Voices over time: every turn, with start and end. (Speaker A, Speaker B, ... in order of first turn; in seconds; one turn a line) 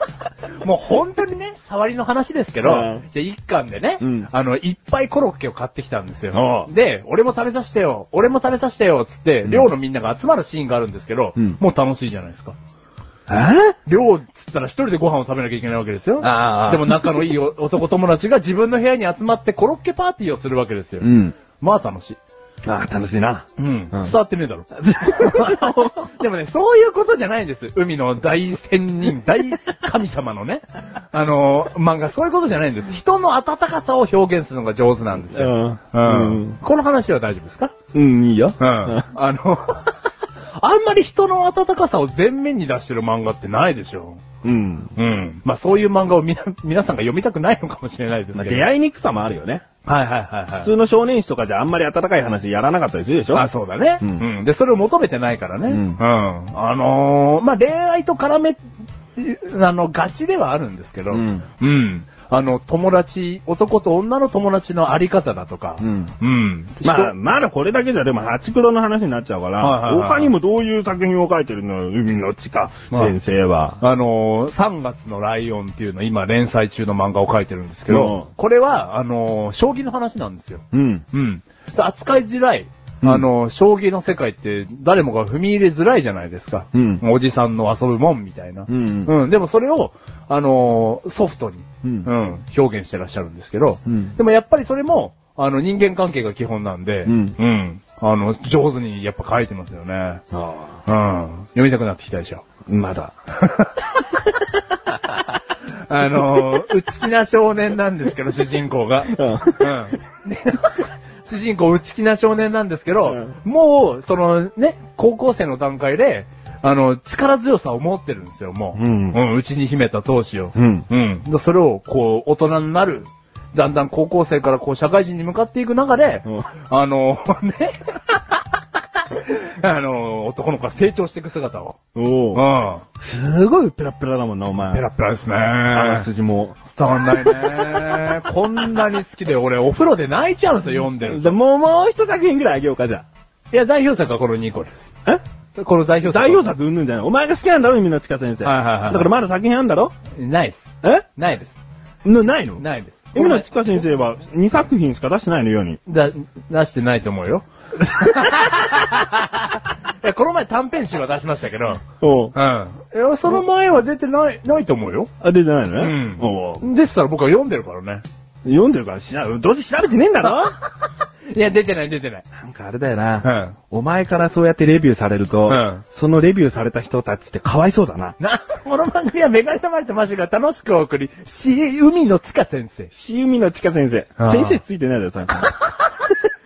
Speaker A: 0.6-12.6
Speaker B: 2.6-3.0
Speaker B: 4.0-4.3
Speaker B: 6.3-6.7
Speaker B: 13.3-13.8
Speaker A: 13.8-22.2
Speaker B: 16.2-17.3
Speaker B: 21.0-21.4
Speaker B: 22.6-24.1
Speaker A: 23.6-37.7
Speaker B: 24.8-26.1
Speaker B: 35.3-36.6
Speaker B: 37.9-39.1
Speaker A: 38.6-39.9
Speaker A: 40.6-44.2
Speaker B: 44.4-44.9
Speaker A: 45.0-48.7
Speaker B: 48.3-49.6
Speaker A: 49.8-50.7
Speaker B: 50.6-53.5
Speaker A: 53.3-58.6
Speaker B: 54.0-54.3
Speaker B: 55.7-56.0
Speaker A: 59.1-67.1
Speaker B: 61.1-61.5
Speaker B: 65.8-66.1
Speaker B: 66.8-73.8
Speaker A: 69.6-70.3
Speaker A: 73.8-100.2
Speaker B: 77.9-78.3
Speaker B: 80.7-81.0
Speaker B: 86.7-87.0
Speaker B: 88.7-89.1
Speaker B: 91.8-92.1
Speaker B: 93.8-94.1
Speaker B: 97.0-97.4
Speaker B: 100.3-100.8
Speaker A: 100.8-102.4
Speaker B: 102.7-103.1
Speaker A: 103.4-103.8
Speaker A: 105.9-128.4
Speaker B: 109.1-109.8
Speaker B: 118.7-119.2
Speaker B: 120.5-120.9
Speaker A: 129.0-131.8
Speaker B: 131.9-132.4
Speaker A: 132.3-132.8
Speaker B: 133.0-134.8
Speaker A: 134.7-136.1
Speaker B: 135.7-136.6
Speaker A: 136.7-141.3
Speaker B: 140.8-143.0
Speaker A: 143.5-144.9
Speaker A: 145.5-146.5
Speaker B: 146.0-149.9
Speaker A: 148.4-149.1
Speaker A: 150.1-151.6
Speaker B: 152.0-155.8
Speaker A: 152.6-153.5
Speaker A: 155.8-161.8
Speaker B: 162.0-162.3
Speaker A: 162.3-165.1
Speaker B: 165.2-166.7
Speaker A: 165.8-168.0
Speaker B: 168.4-170.6
Speaker A: 171.3-172.2
Speaker B: 172.3-178.2
Speaker A: 173.2-173.6
Speaker A: 175.5-175.8
Speaker A: 178.2-182.9
Speaker B: 182.9-185.5
Speaker A: 184.2-184.6